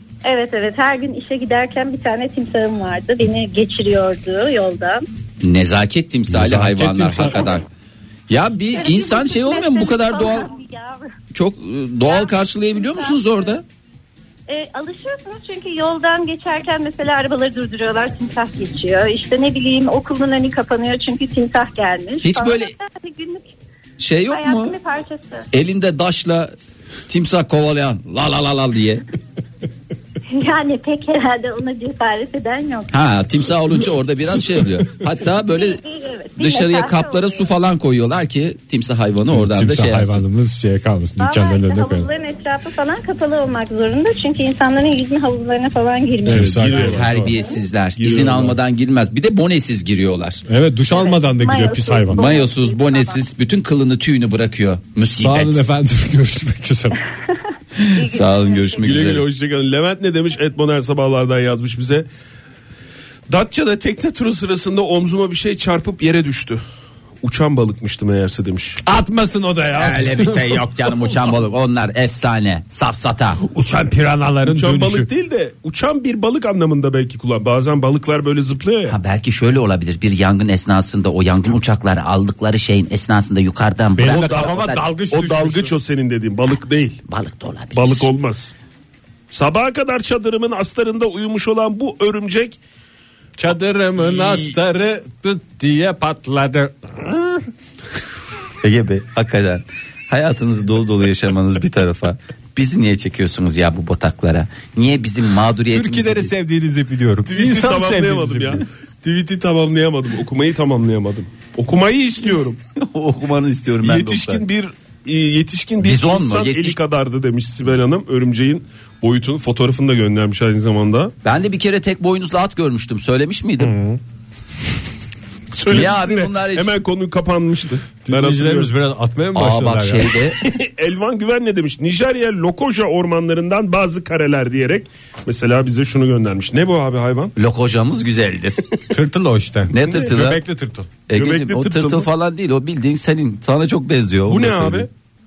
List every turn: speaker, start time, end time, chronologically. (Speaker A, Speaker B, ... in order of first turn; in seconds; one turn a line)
Speaker A: 0.2-5.1
Speaker B: 5.4-7.7
Speaker C: 6.3-7.5
Speaker B: 8.3-10.5
Speaker A: 8.7-11.1
Speaker B: 11.3-13.6
Speaker A: 12.0-13.6
Speaker A: 14.5-23.5
Speaker B: 22.2-22.7
Speaker B: 24.0-24.8
Speaker A: 24.3-25.5
Speaker B: 25.5-26.5
Speaker B: 27.1-29.0
Speaker A: 30.3-32.9
Speaker B: 32.9-35.8
Speaker A: 35.5-37.5
Speaker B: 36.4-40.2
Speaker C: 39.3-42.1
Speaker A: 41.2-47.6
Speaker C: 46.2-47.1
Speaker D: 46.3-47.5
Speaker B: 46.8-50.4
Speaker D: 48.0-48.6
Speaker C: 50.5-52.3
Speaker A: 50.9-53.2
Speaker B: 52.1-55.7
Speaker C: 55.0-57.0
Speaker B: 57.8-59.2
Speaker A: 57.9-58.9
Speaker D: 58.8-62.1
Speaker D: 63.3-66.6
Speaker D: 67.2-68.8
Speaker C: 68.8-70.6
Speaker B: 69.8-73.4
Speaker C: 73.4-75.1
Speaker D: 74.5-79.0
Speaker B: 78.9-84.8
Speaker C: 84.0-85.7
Speaker D: 84.1-87.0
Speaker B: 87.1-88.1
Speaker D: 87.8-88.5
Speaker D: 89.3-92.6
Speaker C: 93.4-97.5
Speaker D: 94.2-94.5
Speaker B: 98.6-106.3
Speaker C: 105.7-108.6
Speaker D: 107.3-112.6
Speaker B: 112.8-114.4
Speaker D: 113.8-121.1
Speaker B: 115.8-116.8
Speaker B: 121.2-123.8
Speaker C: 123.6-124.0
Speaker D: 125.5-128.7
Speaker B: 125.7-126.7
Speaker C: 128.1-130.1
Speaker B: 129.3-130.4
Speaker D: 130.4-137.3
Speaker B: 137.4-138.6
Speaker C: 138.9-140.9
Speaker B: 139.7-140.4
Speaker B: 141.1-144.9
Speaker D: 141.1-142.1
Speaker D: 144.3-144.9